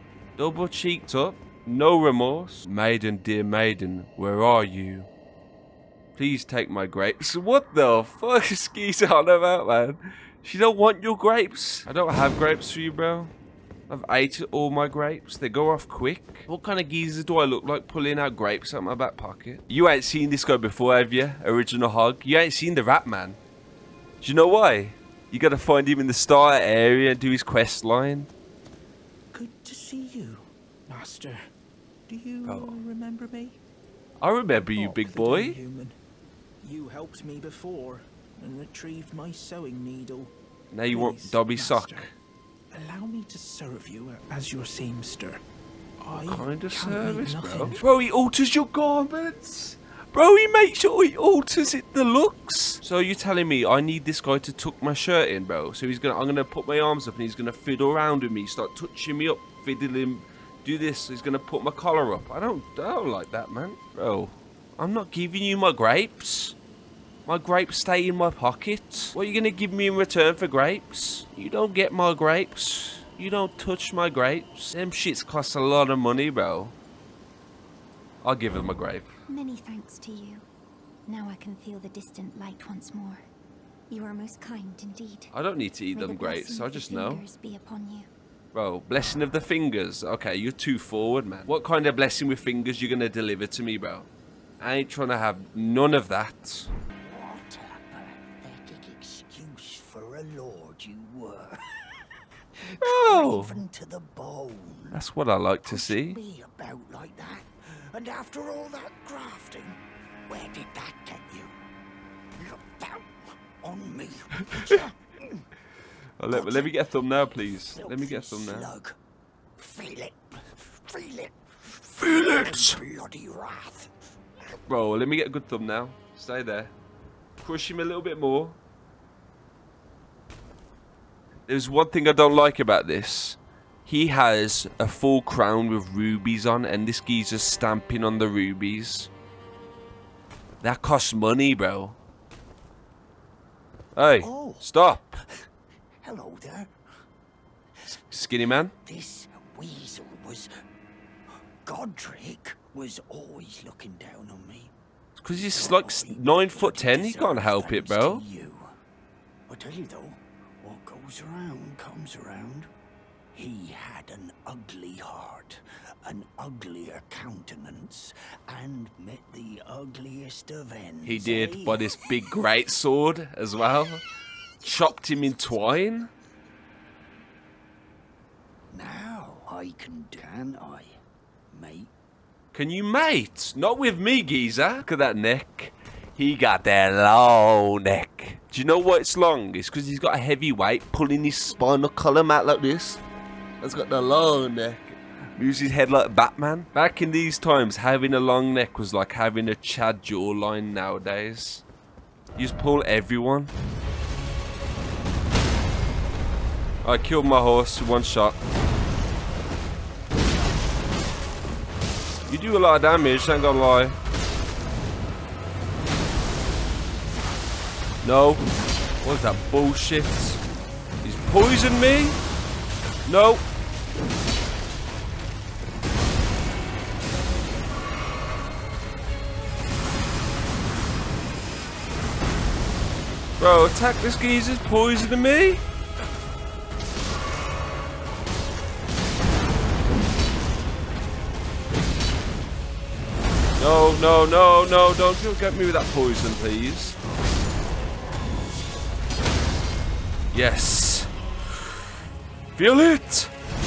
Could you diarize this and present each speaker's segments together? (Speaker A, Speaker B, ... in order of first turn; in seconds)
Speaker A: 0.4-5.1, 6.2-13.3, 13.9-23.4, 24.2-28.3, 32.4-32.8, 34.2-35.6, 40.7-42.1, 46.2-66.6, 67.3-76.7, 78.2-79.1, 85.3-87.2, 88.5-94.1, 94.6-96.7, 102.8-103.6, 104.9-106.2, 116.2-118.7, 122.0-122.8, 124.7-126.7, 127.4-128.6, 131.5-139.1, 140.6-142.0, 143.9-145.2, 147.9-148.7, 155.2-158.2, 171.1-174.0, 174.6-176.1, 182.5-193.0, 193.6-201.6, 202.4-203.5, 206.8-208.4, 212.3-214.0, 218.0-218.4, 219.0-220.4, 221.0-222.2, 223.1-223.5, 233.4-235.6, 243.6-247.0, 250.3-251.1, 252.6-253.3
Speaker B: 29.3-31.5, 32.1-33.6, 34.7-35.9, 36.6-40.3, 40.9-42.1, 42.7-45.4, 46.0-47.8
Speaker C: 79.3-80.4, 81.1-83.2, 83.9-85.3, 85.9-88.1
Speaker D: 97.0-102.0, 102.6-105.0, 105.7-111.5, 112.4-115.4, 116.3-116.8, 117.3-118.9, 119.6-123.9, 144.2-144.7, 146.0-146.7, 148.8-150.5, 151.6-154.7, 155.3-158.7, 159.5-162.7, 163.3-172.0, 178.7-181.0, 181.5-181.9